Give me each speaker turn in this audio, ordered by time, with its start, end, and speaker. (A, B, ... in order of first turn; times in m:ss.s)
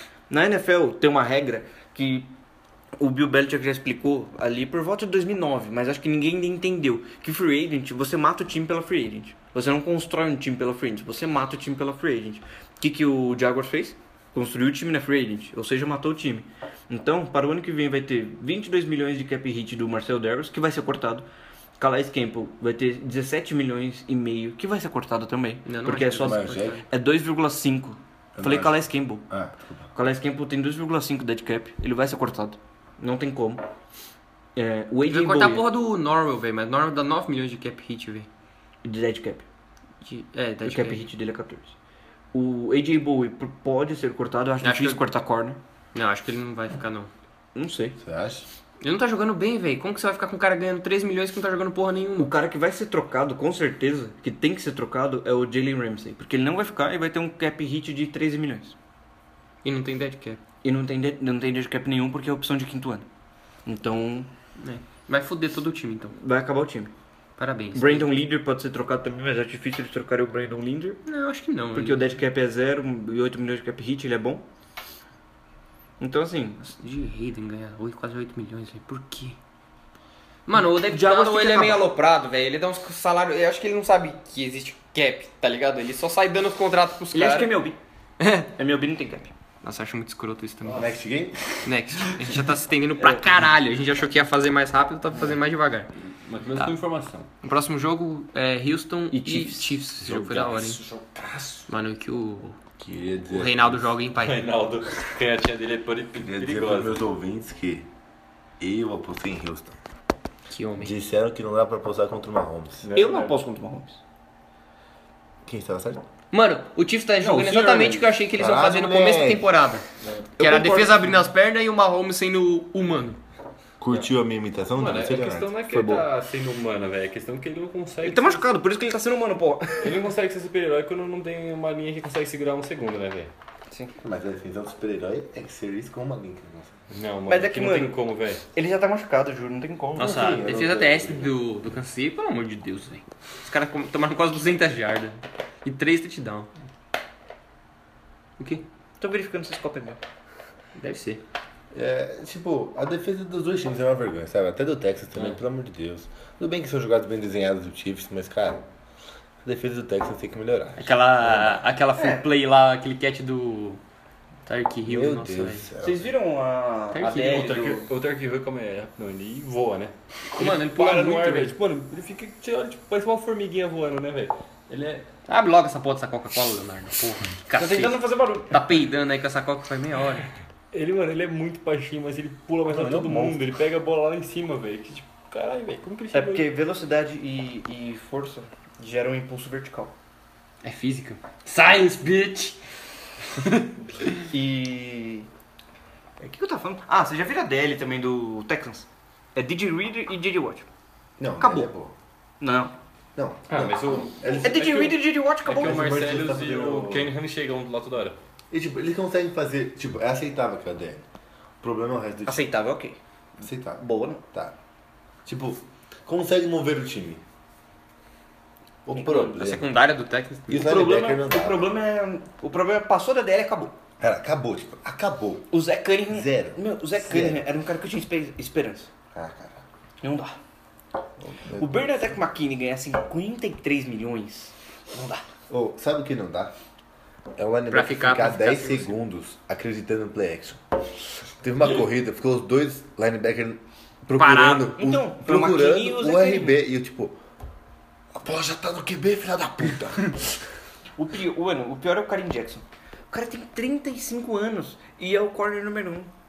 0:00.3-0:02.3 A
0:03.0-0:21.2 A
0:21.8-0:29.3 A
0:25.7-0:26.8 B
0:26.2-0:26.8 C
0:28.4-0:29.9 C
0:29.9-0:33.6 A
0:34.6-0:35.6 A
0:35.1-0:38.3 B
0:38.8-0:39.5 A
0:40.0-0:41.1 B
0:40.6-0:41.8 A
0:42.3-0:45.6 A
0:44.6-0:45.0 B
0:45.9-0:47.1 B
0:47.6-0:48.0 A
0:48.0-0:48.5 C
0:48.8-0:52.3 B
0:52.2-0:58.8 A
0:59.6-1:00.4 B
1:00.6-1:03.1 A
1:03.7-1:04.3 A
1:04.6-1:06.2 B
1:06.2-1:06.9 A
1:07.4-1:08.1 B
1:07.7-1:11.0 A
1:11.1-1:12.0 B
1:11.7-1:14.4 A
1:16.0-1:16.6 A
1:16.6-1:19.4 B
1:20.5-1:27.5 B
1:20.6-1:21.8 A
1:27.1-1:27.8 A
1:28.2-1:28.5 B
1:28.6-1:29.3 A
1:29.6-1:30.9 B
1:30.7-1:31.6 C
1:31.6-1:35.9 B
1:33.0-1:33.2 A
1:36.0-1:37.3 D
1:37.4-1:40.8 B
1:39.1-1:39.8 A
1:40.0-1:41.7 D
1:41.7-1:42.6 B
1:42.8-1:43.9 C
1:43.3-1:44.4 B
1:44.2-1:47.1 D
1:46.2-1:47.9 C
1:48.6-1:49.8 C
1:50.5-1:50.9 B
1:50.8-1:52.9 C
1:52.8-1:53.4 D
1:52.9-1:54.0 A
1:55.5-1:56.0 C
1:56.3-1:59.8 B
1:57.2-1:58.1 A
1:58.4-1:59.5 C
2:00.0-2:00.3 D
2:00.4-2:01.2 A
2:00.4-2:03.2 B
2:03.8-2:06.1 C
2:04.8-2:08.4 D
2:08.0-2:10.1 A
2:09.8-2:13.3 D
2:14.0-2:16.8 C
2:16.9-2:18.4 D
2:17.3-2:18.0 A
2:18.5-2:20.2 A
2:20.0-2:26.5 B
2:20.0-2:21.4 C
2:28.4-2:28.6 B
2:29.0-2:30.0 A
2:30.8-2:31.2 B
2:31.7-2:38.6 C
2:39.4-2:41.6 C
2:40.8-2:43.8 B
2:42.0-2:42.3 A
2:44.5-2:45.7 B
2:44.8-2:46.1 C
2:45.8-2:47.9 A
2:46.9-2:47.4 B
2:47.2-2:55.1 D
2:50.3-2:51.6 B
2:55.3-2:58.0 B
2:57.6-2:58.6 A
2:58.5-3:00.3 B
3:00.7-3:06.5 D
3:02.7-3:03.4 C
3:06.1-3:09.9 A
3:10.6-3:12.6 B
3:13.4-3:13.6 B
3:14.3-3:15.3 A
3:16.2-3:20.7 A
3:21.2-3:21.9 C
3:21.4-3:21.7 A
3:22.4-3:22.7 A
3:23.2-3:24.9 C
3:23.5-3:28.2 D
3:24.4-3:25.9 A
3:25.5-3:27.1 C
3:28.5-3:31.0 C
3:31.6-3:32.4 C
3:32.3-3:33.0 A
3:33.4-3:34.6 C
3:33.8-3:34.2 A
3:35.2-3:37.2 C
3:38.8-3:39.7 C
3:39.1-3:40.8 B
3:40.5-3:41.7 C
3:40.6-3:43.7 A
3:44.0-3:45.5 C
3:45.5-3:48.9 A
3:46.1-3:47.4 C
3:49.1-3:49.6 C
3:50.0-3:50.4 A
3:51.2-3:51.9 C
3:51.6-3:55.2 A
3:55.5-3:56.5 C
3:57.4-4:00.6 C
3:57.7-3:58.9 B
4:01.4-4:07.2 C
4:04.2-4:04.8 B
4:04.7-4:06.6 A
4:08.1-4:10.4 C
4:11.0-4:16.1 A